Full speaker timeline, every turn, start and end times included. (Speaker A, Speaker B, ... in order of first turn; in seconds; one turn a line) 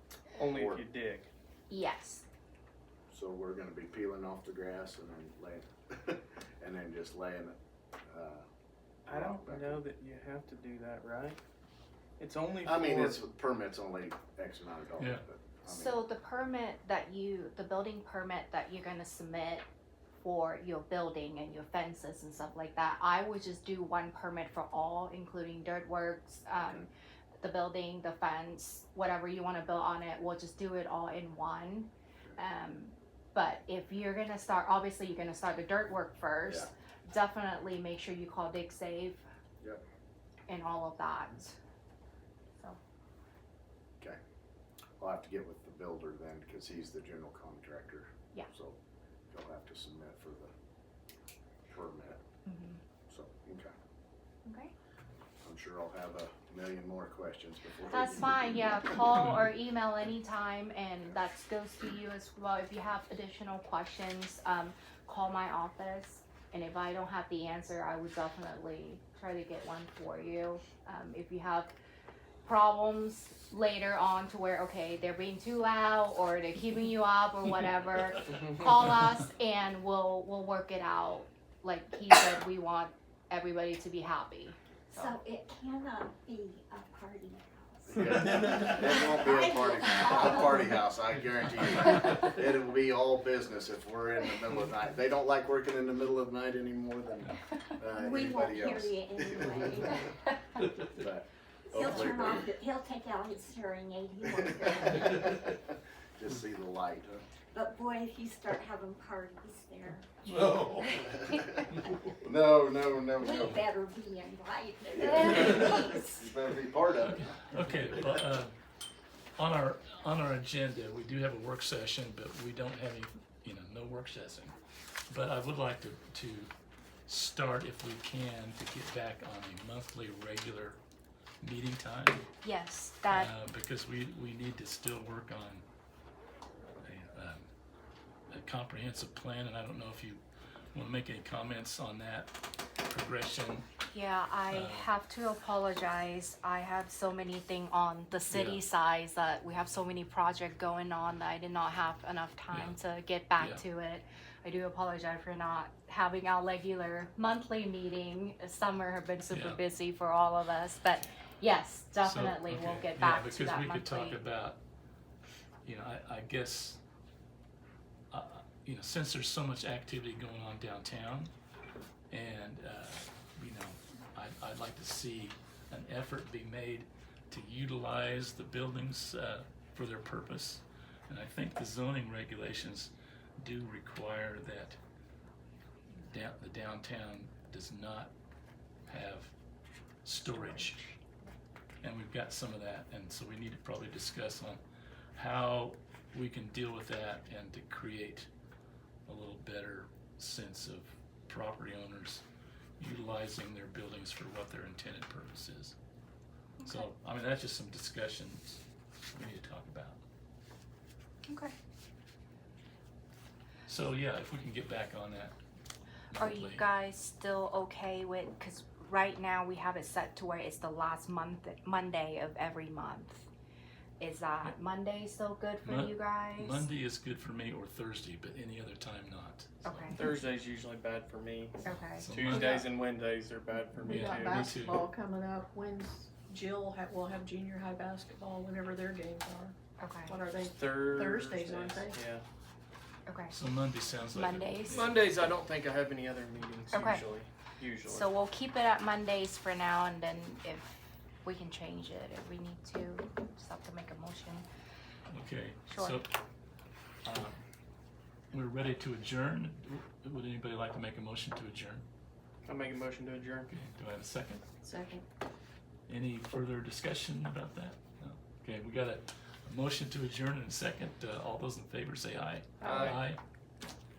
Speaker A: 0.4-1.3
Speaker B: 0.5-0.8
Speaker C: 1.7-2.2
Speaker B: 3.1-7.5
Speaker B: 8.1-8.4
Speaker A: 9.1-11.4
Speaker B: 9.1-9.8
Speaker A: 12.2-13.2
Speaker B: 12.6-16.0
Speaker C: 15.7-19.7
Speaker C: 20.2-26.9
Speaker B: 26.6-26.9
Speaker C: 27.4-39.2
Speaker C: 40.5-41.6
Speaker B: 45.0-48.8
Speaker B: 49.3-50.5
Speaker B: 51.7-52.2
Speaker C: 52.5-52.8
Speaker B: 53.1-53.7
Speaker C: 54.5-54.7
Speaker B: 55.4-58.8
Speaker C: 57.9-71.7
Speaker C: 72.5-85.2
Speaker D: 84.9-90.8
Speaker B: 87.9-100.0
Speaker D: 97.9-100.1
Speaker B: 100.8-102.5
Speaker D: 101.7-105.4
Speaker B: 104.8-107.3
Speaker D: 107.5-111.6
Speaker E: 110.2-110.9
Speaker B: 112.2-113.6
Speaker D: 113.2-116.1
Speaker B: 115.0-117.4
Speaker E: 117.0-118.5
Speaker E: 119.4-124.6
Speaker E: 125.1-126.5
Speaker E: 127.1-130.8
Speaker E: 131.4-132.3
Speaker C: 132.4-133.3
Speaker E: 133.1-135.7
Speaker E: 136.8-137.5
Speaker E: 138.3-142.4
Speaker E: 142.9-143.7
Speaker C: 143.9-164.2
Speaker E: 144.5-144.9
Speaker E: 148.3-148.6
Speaker E: 152.5-152.8
Speaker E: 153.4-153.6
Speaker E: 159.3-159.6
Speaker E: 162.0-164.6
Speaker E: 165.7-166.8
Speaker E: 168.1-171.3
Speaker E: 172.1-184.8
Speaker E: 186.1-188.1
Speaker E: 188.9-189.3
Speaker E: 190.0-190.9
Speaker C: 190.3-190.6
Speaker E: 191.8-194.6
Speaker E: 195.2-198.3
Speaker E: 199.1-202.2
Speaker E: 202.8-205.8
Speaker C: 206.6-206.9
Speaker E: 206.7-208.6
Speaker E: 209.1-210.0
Speaker C: 211.3-211.6
Speaker E: 213.7-215.4
Speaker E: 216.1-216.7
Speaker C: 216.2-223.3
Speaker C: 224.0-226.7
Speaker E: 225.6-230.0
Speaker C: 229.6-230.0
Speaker A: 229.9-234.4
Speaker C: 231.7-232.1
Speaker E: 231.9-232.7
Speaker F: 232.3-232.6
Speaker E: 233.8-234.9
Speaker F: 233.8-239.6
Speaker C: 239.8-240.2
Speaker F: 240.1-242.0
Speaker A: 240.6-242.2
Speaker C: 243.1-243.3
Speaker E: 243.3-245.1
Speaker C: 244.1-244.9
Speaker A: 244.7-248.1
Speaker C: 246.7-247.1
Speaker C: 247.9-254.5
Speaker E: 255.1-256.1
Speaker C: 255.7-256.0
Speaker E: 257.1-257.4
Speaker E: 258.3-261.8
Speaker A: 262.5-263.5
Speaker E: 263.5-264.4
Speaker F: 264.6-265.0
Speaker E: 265.9-273.2
Speaker F: 272.6-272.9
Speaker A: 272.6-273.0